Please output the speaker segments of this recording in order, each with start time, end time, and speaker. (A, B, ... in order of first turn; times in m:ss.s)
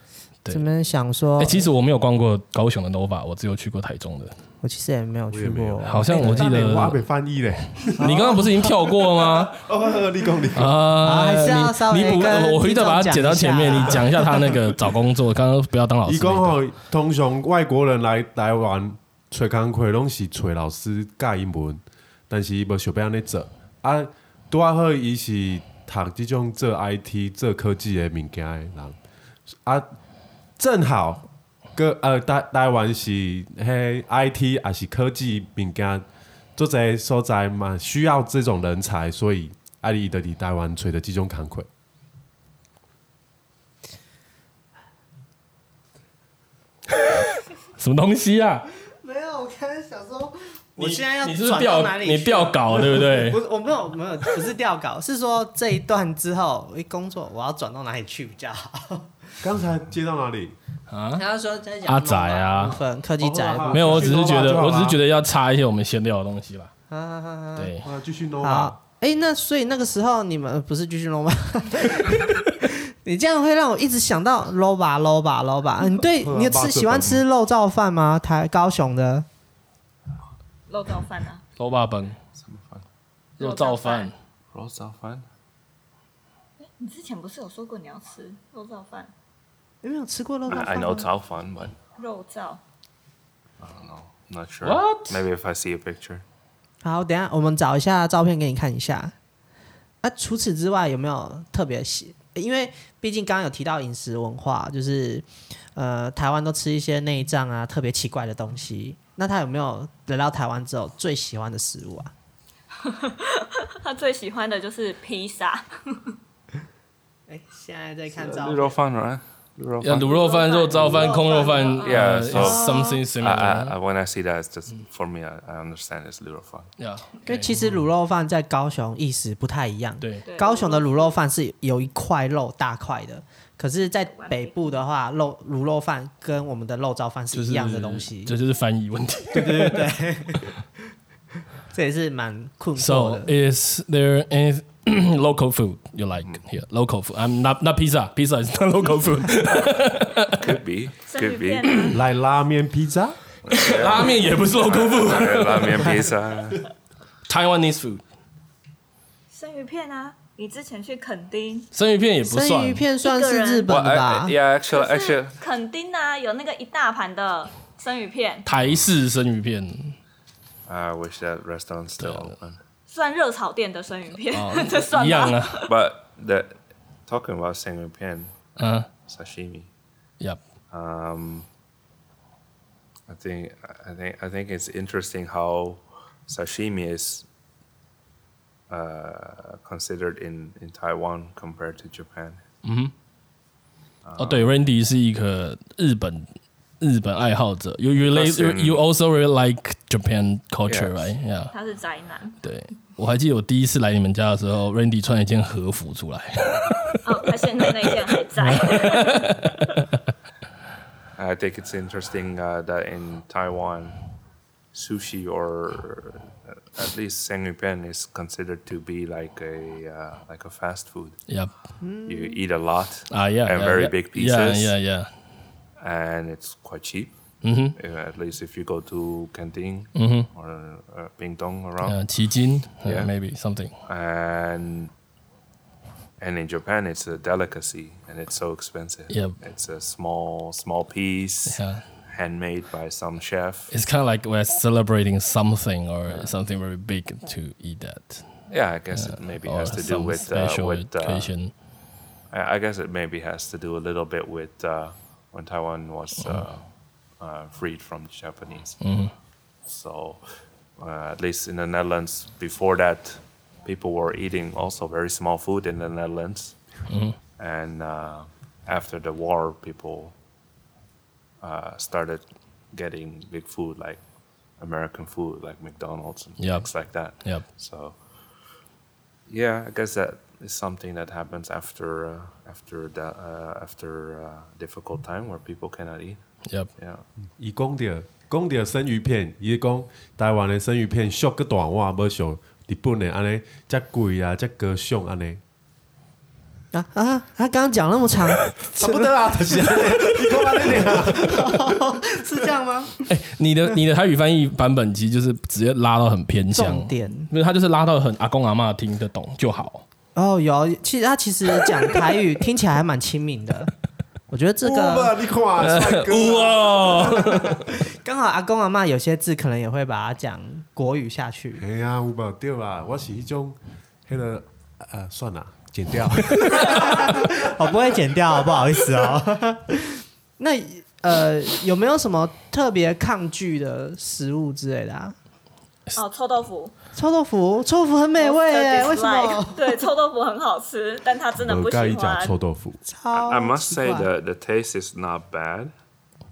0:00.5-0:01.7 A
0:01.4-0:04.4 B
0:04.6-0:06.6 A
0:05.3-0:08.4 C
0:05.8-0:07.0 B
0:07.9-0:09.6 B
0:08.0-0:08.8 A
0:09.5-0:10.8 C
0:10.5-0:16.6 B
0:11.0-0:14.5 A
0:16.0-0:29.0 C
0:29.5-0:29.9 C
0:30.6-0:36.0 C
0:36.6-0:41.7 C
0:47.8-0:48.7 B
0:49.0-0:59.2 A
0:50.8-0:53.4 B
0:59.4-1:00.6 C
1:00.9-1:01.2 B
1:01.2-1:04.3 A
1:01.8-1:02.8 B
1:03.2-1:05.0 C
1:03.7-1:06.7 B
1:06.9-1:07.8 A
1:07.6-1:07.8 B
1:07.8-1:08.8 C
1:08.4-1:19.2 A
1:16.2-1:17.2 C
1:20.7-1:21.4 D
1:21.6-1:22.2 B
1:22.4-1:22.8 E
1:23.4-1:24.1 B
1:23.4-1:24.1 D
1:24.5-1:25.2 E
1:26.6-1:29.1 D
1:29.8-1:31.1 A
1:30.5-1:31.8 E
1:32.0-1:32.6 D
1:33.6-1:36.2 E
1:34.6-1:35.2 B
1:36.8-1:39.1 A
1:40.0-1:52.1 A
1:52.8-1:56.1 D
1:57.3-1:58.8 A
1:58.1-2:00.2 E
1:59.8-2:03.7 B
2:00.1-2:02.1 D
2:00.7-2:01.1 E
2:01.2-2:01.5 A
2:01.8-2:06.7 E
2:02.3-2:03.0 A
2:06.8-2:07.8 B
2:07.2-2:18.3 A
2:10.0-2:10.2 B
2:10.2-2:11.2 D
2:14.0-2:14.7 D
2:17.3-2:19.9 B
2:19.3-2:20.5 A
2:21.7-2:23.3 A
2:22.8-2:30.5 B
2:30.4-2:31.7 E
2:31.1-2:32.0 D
2:31.9-2:33.2 C
2:33.5-2:36.6 E
2:33.5-2:36.1 B
2:37.3-2:38.0 B
2:39.3-2:41.7 D
2:41.7-2:42.8 B
2:42.2-2:44.3 A
2:43.0-2:43.7 D
2:43.7-2:45.4 E
2:44.7-2:48.4 D
2:48.4-2:50.0 B
2:50.6-2:52.6 E
2:52.0-2:52.3 B
2:52.9-2:55.7 D
2:54.3-2:55.6 B
2:55.6-2:59.7 E
2:58.6-2:58.9 B
3:00.7-3:01.5 E
3:03.1-3:07.2 E
3:08.7-3:12.4 E
3:12.6-3:12.9 B
3:14.0-3:14.5 E
3:14.2-3:21.5 B
3:18.1-3:18.8 E
3:20.7-3:21.1 E
3:21.5-3:22.4 D
3:22.4-3:29.8 B
3:27.0-3:29.3 D
3:31.2-3:34.0 E
3:34.7-3:41.2 E
3:41.8-3:42.4 A
3:42.0-3:44.8 E
3:43.1-3:45.1 B
3:45.8-3:47.2 E
3:47.4-3:47.8 B
3:47.8-3:52.0 E
3:49.9-3:50.3 B
3:51.8-3:53.7 B
3:52.8-3:53.1 E
3:53.8-3:54.9 E
3:56.2-4:03.7 E
3:59.1-3:59.4 B
4:01.5-4:01.8 B
4:03.7-4:08.4 B
4:08.5-4:11.3 E
4:08.9-4:11.5 B
4:12.3-4:16.6 E
4:17.2-4:18.8 E
4:18.8-4:19.1 B
4:19.6-4:20.2 E
4:20.8-4:26.6 E
4:26.9-4:27.2 B
4:27.4-4:30.1 E
4:31.4-4:34.0 E
4:34.6-4:38.0 E
4:36.4-4:36.7 B
4:39.3-4:46.2 E
4:46.8-4:47.0 E
4:47.4-4:55.4 C
4:56.7-5:03.0 A
4:58.8-5:01.8 C
5:03.1-5:09.8 B
5:06.5-5:07.3 A
5:10.1-5:13.7 A
5:14.3-5:15.1 A
5:14.6-5:17.4 C
5:15.6-5:17.6 B
5:17.9-5:21.6 A
5:21.6-5:27.8 C
5:26.4-5:35.1 A
5:36.0-5:36.7 D
5:36.9-5:39.8 A
5:38.2-5:42.4 D
5:41.4-5:42.8 C
5:42.8-5:44.1 A
5:43.1-5:45.7 E